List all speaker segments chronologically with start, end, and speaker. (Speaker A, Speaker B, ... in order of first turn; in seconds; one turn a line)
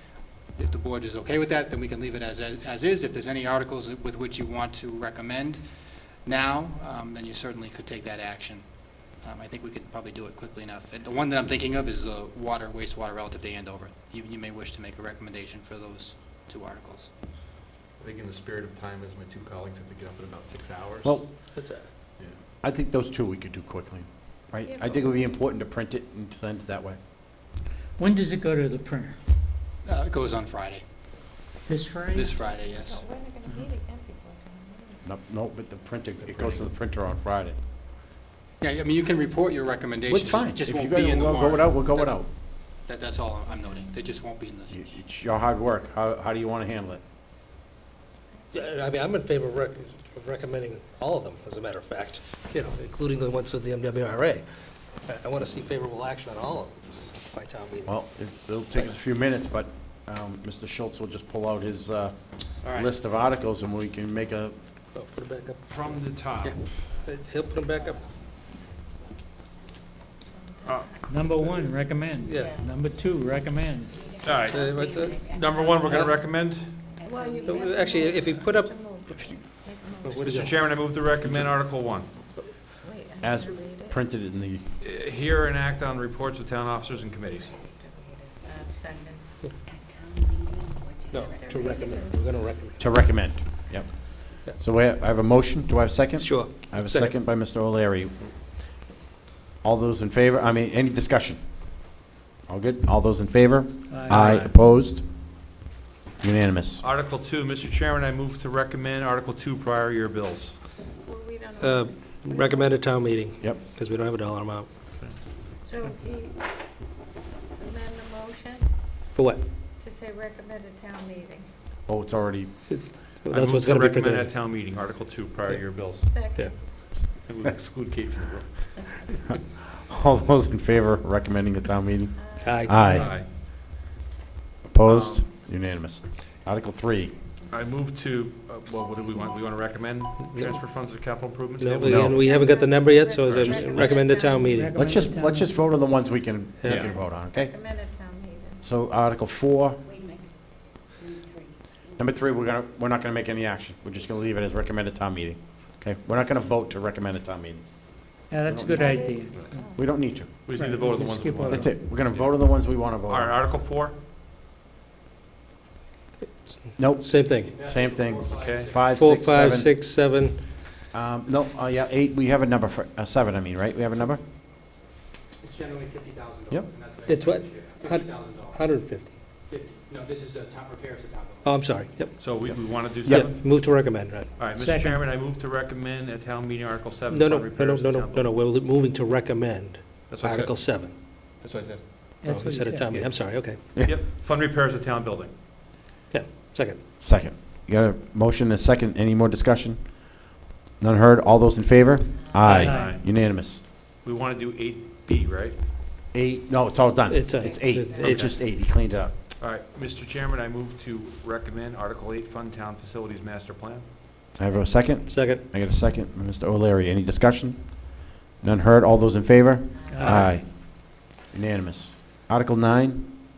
Speaker A: 0.5-5.6
Speaker A: 6.2-17.1
Speaker B: 18.0-21.2
Speaker C: 21.0-21.3
Speaker D: 21.5-21.9
Speaker C: 22.6-27.0
Speaker E: 24.6-25.3
Speaker F: 28.0-29.1
Speaker A: 29.8-30.8
Speaker F: 31.7-32.3
Speaker A: 32.1-33.0
Speaker E: 32.5-35.0
Speaker C: 35.0-37.6
Speaker A: 38.6-44.9
Speaker C: 40.1-42.3
Speaker C: 44.7-47.0
Speaker D: 48.5-54.4
Speaker D: 55.0-58.0
Speaker C: 57.9-64.5
Speaker B: 62.6-62.9
Speaker D: 64.9-68.1
Speaker B: 65.7-66.8
Speaker B: 70.6-71.6
Speaker F: 71.0-74.1
Speaker D: 72.2-72.6
Speaker G: 72.3-72.8
Speaker G: 73.9-76.2
Speaker B: 74.2-76.9
Speaker D: 74.4-75.2
Speaker G: 76.9-78.0
Speaker E: 77.0-80.7
Speaker D: 77.5-78.9
Speaker D: 80.0-80.6
Speaker B: 80.2-82.1
Speaker E: 82.8-84.0
Speaker C: 83.2-84.7
Speaker B: 84.8-87.6
Speaker E: 87.6-89.2
Speaker G: 89.7-91.5
Speaker D: 91.1-92.8
Speaker E: 91.2-92.2
Speaker C: 92.8-98.6
Speaker D: 96.2-97.1
Speaker C: 99.6-101.9
Speaker C: 102.5-105.0
Speaker F: 103.9-104.4
Speaker B: 104.1-104.5
Speaker C: 106.2-106.8
Speaker B: 106.8-110.6
Speaker E: 110.9-112.8
Speaker D: 111.6-114.7
Speaker E: 115.5-116.4
Speaker E: 117.6-118.7
Speaker D: 119.1-119.4
Speaker E: 119.8-121.5
Speaker C: 121.9-122.5
Speaker D: 122.7-124.3
Speaker B: 123.3-126.1
Speaker E: 126.0-126.7
Speaker D: 126.2-126.5
Speaker B: 127.0-129.1
Speaker C: 129.3-133.1
Speaker E: 132.2-132.9
Speaker D: 132.4-132.8
Speaker B: 132.9-133.3
Speaker C: 134.7-137.1
Speaker B: 134.8-135.3
Speaker B: 137.5-142.1
Speaker E: 138.7-139.2
Speaker D: 140.2-140.6
Speaker D: 141.6-144.8
Speaker C: 141.8-142.2
Speaker E: 142.1-144.7
Speaker B: 143.2-143.9
Speaker C: 143.4-144.0
Speaker F: 144.3-145.6
Speaker C: 144.7-147.6
Speaker D: 146.6-146.9
Speaker B: 146.7-146.9
Speaker E: 146.7-148.6
Speaker C: 148.6-149.9
Speaker G: 149.9-150.2
Speaker C: 152.0-160.3
Speaker F: 158.3-159.7
Speaker E: 158.7-159.8
Speaker B: 160.4-162.4
Speaker F: 160.5-161.9
Speaker C: 161.4-163.4
Speaker B: 163.1-164.0
Speaker D: 166.4-167.5
Speaker C: 166.8-169.7
Speaker A: 167.3-169.2
Speaker B: 168.4-168.7
Speaker D: 168.9-170.4
Speaker C: 170.9-174.2
Speaker A: 175.4-178.8
Speaker D: 177.1-179.2
Speaker A: 179.4-181.7
Speaker D: 181.4-184.3
Speaker B: 182.2-183.6
Speaker C: 182.4-183.3
Speaker B: 184.3-188.3
Speaker F: 184.5-185.1
Speaker D: 187.1-190.9
Speaker B: 190.1-190.6
Speaker B: 191.4-191.8
Speaker F: 192.2-193.1
Speaker D: 192.2-193.6
Speaker B: 193.8-195.3
Speaker D: 196.1-196.8
Speaker C: 197.0-203.6
Speaker B: 202.4-203.0
Speaker F: 202.5-203.0
Speaker B: 203.9-205.6
Speaker C: 206.1-209.1
Speaker D: 207.1-208.3
Speaker G: 207.5-208.0
Speaker B: 208.1-208.4
Speaker B: 209.4-213.9
Speaker C: 214.3-223.1
Speaker D: 215.1-215.4
Speaker F: 219.9-220.3